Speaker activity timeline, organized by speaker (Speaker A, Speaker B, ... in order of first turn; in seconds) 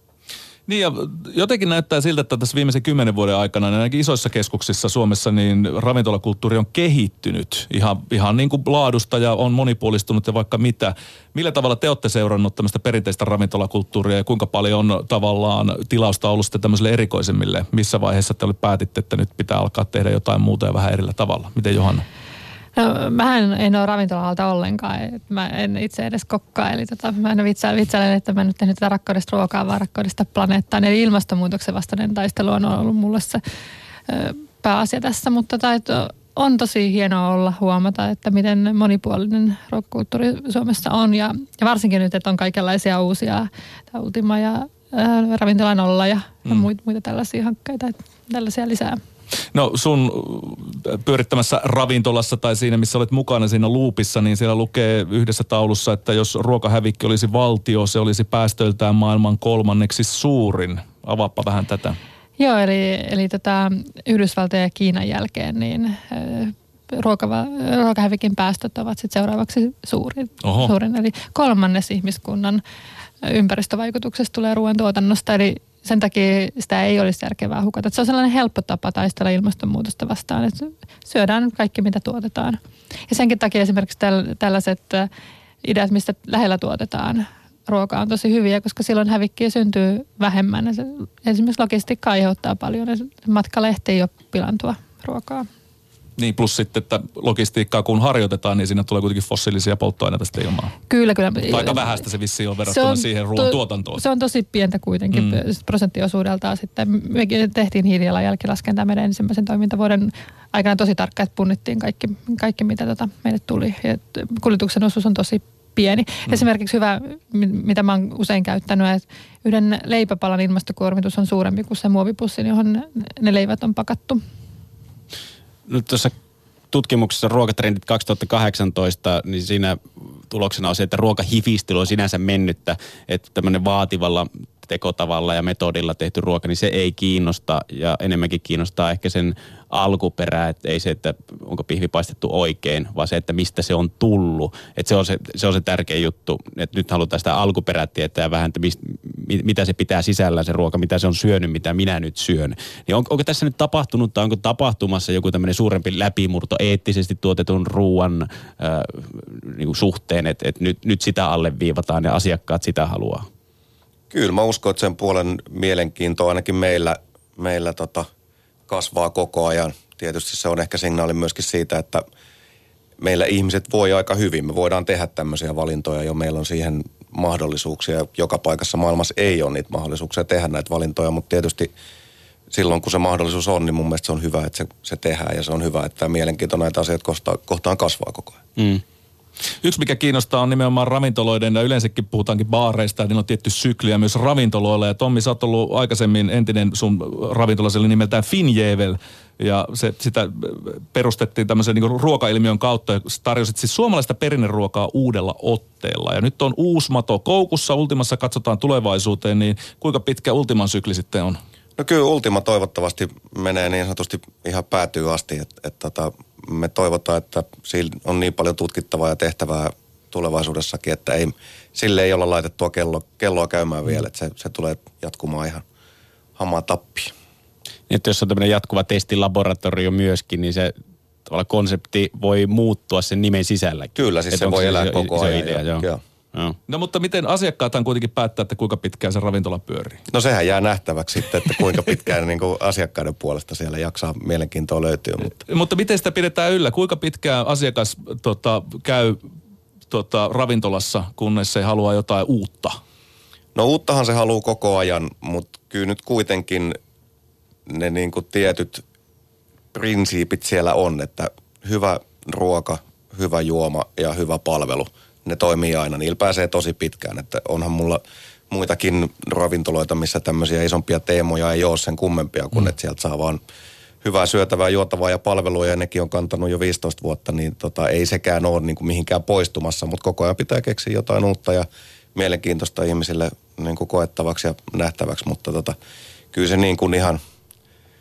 Speaker A: 0.7-22.0, 49.5-62.0, 70.4-70.7, 96.2-100.7, 101.5-104.0, 105.1-105.4, 189.6-211.4, 236.7-240.0, 245.3-249.2, 249.9-252.8
Speaker B: 22.8-33.4, 34.1-49.0, 62.4-72.6, 73.2-85.1, 85.6-95.5, 100.9-102.0, 102.7-124.2
Speaker C: 125.7-126.1, 126.7-163.2, 188.6-188.8, 227.9-230.7, 231.3-236.6
Speaker D: 164.1-168.1, 168.7-172.0, 173.0-181.7, 182.5-188.4, 211.8-225.6, 226.4-227.1, 233.9-236.0, 240.1-245.4, 253.5-256.8, 257.7-258.8, 259.7-273.4, 274.0-285.8, 286.3-287.2